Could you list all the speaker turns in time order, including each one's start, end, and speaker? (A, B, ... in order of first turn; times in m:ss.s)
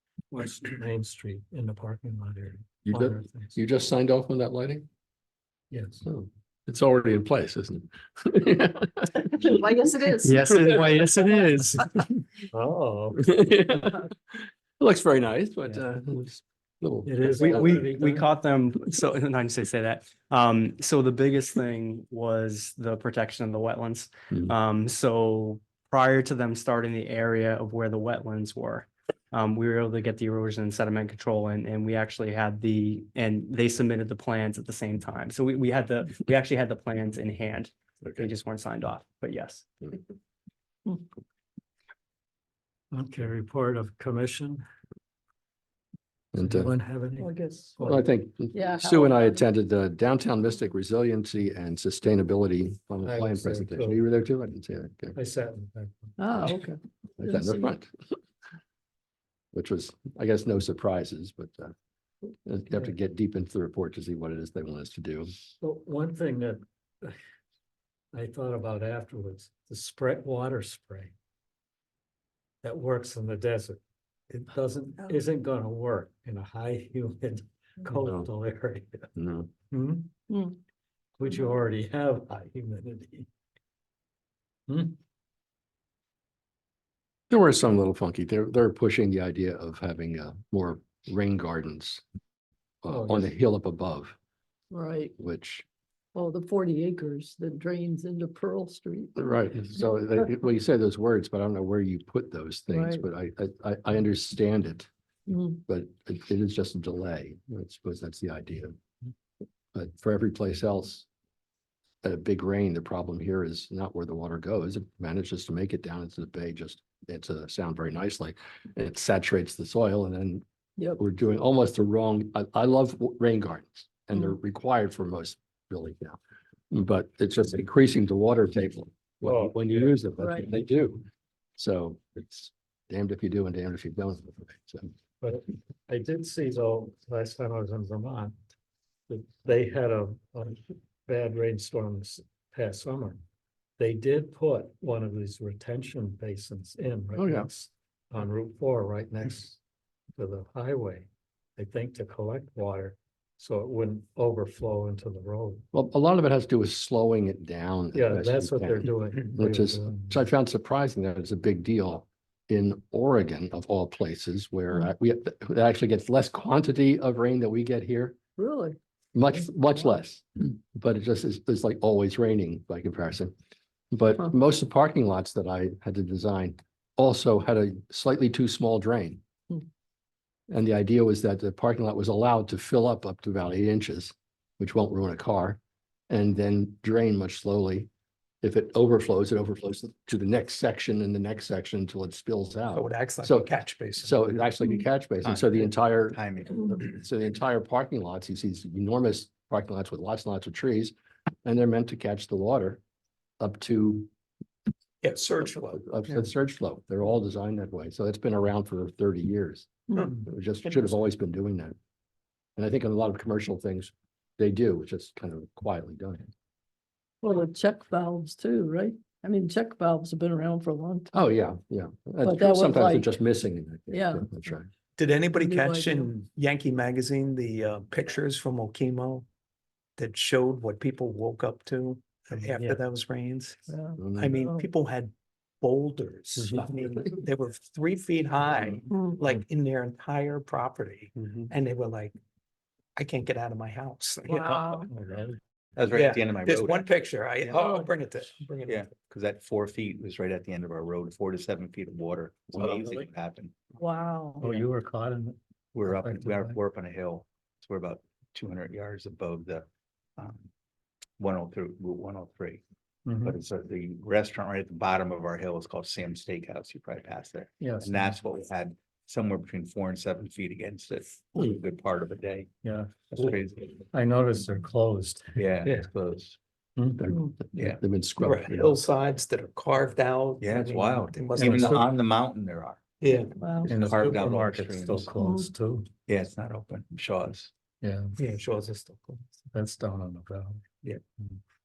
0:00.3-0:03.6 A
0:02.8-0:04.9 B
0:05.7-0:06.0 A
0:06.0-0:09.5 B
0:09.5-0:10.2 C
0:10.2-0:12.0 D
0:12.5-0:13.3 A
0:13.2-0:17.9 B
0:17.1-0:18.3 A
0:17.4-0:39.7 D
0:42.9-0:44.6 A
0:46.3-0:46.7 B
0:46.4-0:48.1 A
0:47.2-0:47.7 C
0:47.8-0:55.2 B
0:48.5-0:49.4 C
0:53.0-0:54.0 A
0:55.2-0:56.2 A
0:56.2-0:57.7 C
0:56.4-0:57.9 B
0:59.5-1:01.7 B
1:02.4-1:05.3 B
1:05.6-1:07.2 A
1:08.1-1:11.1 A
1:12.6-1:19.1 A
1:19.2-1:19.5 B
1:19.7-1:20.1 A
1:20.3-1:20.6 C
1:21.2-1:23.3 A
1:24.7-1:25.0 A
1:27.3-1:32.0 B
1:32.8-1:34.2 B
1:32.9-1:33.3 A
1:34.7-1:35.1 C
1:35.2-1:35.7 B
1:36.1-1:39.2 C
1:39.2-1:44.9 B
1:42.7-1:43.1 C
1:45.3-1:45.6 C
1:45.7-1:48.8 B
1:49.7-1:51.1 B
1:52.0-2:00.4 B
2:01.0-2:06.2 B
2:06.7-2:11.0 B
2:09.2-2:10.0 A
2:10.2-2:10.5 C
2:11.6-2:14.9 B
2:15.2-2:18.4 A
2:19.1-2:23.2 A
2:23.8-2:29.6 A
2:27.2-2:27.5 B
2:30.2-2:35.6 A
2:35.7-2:48.2 B
2:37.9-2:40.2 A
2:48.4-2:48.8 C
2:49.2-2:53.3 B
2:49.3-2:50.0 C
2:53.9-2:59.2 B
3:00.5-3:05.6 B
3:06.1-3:07.9 B
3:08.4-3:13.5 B
3:12.7-3:14.3 E
3:14.0-3:16.2 B
3:15.2-3:17.0 F
3:16.8-3:22.8 B
3:23.4-3:24.1 B
3:25.0-3:26.1 E
3:25.7-3:31.8 B
3:29.9-3:31.0 E
3:32.6-3:36.3 B
3:37.2-3:41.1 C
3:41.1-3:44.7 B
3:42.2-3:43.2 C
3:43.9-3:44.5 C
3:45.0-3:49.3 E
3:45.3-3:46.1 C
3:50.0-4:02.2 E
3:52.3-3:52.8 A
3:53.7-3:54.7 C
3:54.0-3:54.4 B
3:56.4-3:56.7 A
4:03.0-4:04.9 E
4:04.3-4:04.8 C
4:04.9-4:05.4 A
4:05.8-4:07.7 F
4:05.9-4:09.0 E
4:08.7-4:13.6 F
4:13.8-4:14.6 C
4:14.4-4:16.6 A
4:15.8-4:19.7 F
4:20.2-4:20.5 F
4:21.2-4:22.6 F
4:23.1-4:23.4 A
4:23.2-4:32.5 F
4:27.6-4:28.2 A
4:32.6-4:33.4 A
4:33.1-4:33.9 F
4:33.9-4:35.9 A
4:35.4-4:36.4 F
4:36.8-4:37.1 A
4:37.0-4:38.8 B
4:38.2-4:41.8 E
4:40.4-4:42.9 F
4:41.4-4:41.9 A
4:43.0-4:43.4 E
4:43.4-4:43.7 C
4:43.6-4:45.2 F
4:43.6-4:45.9 A
4:45.2-4:45.5 C
4:46.1-4:47.5 F
4:47.8-4:48.2 A
4:48.2-4:49.2 E
4:49.5-4:50.6 A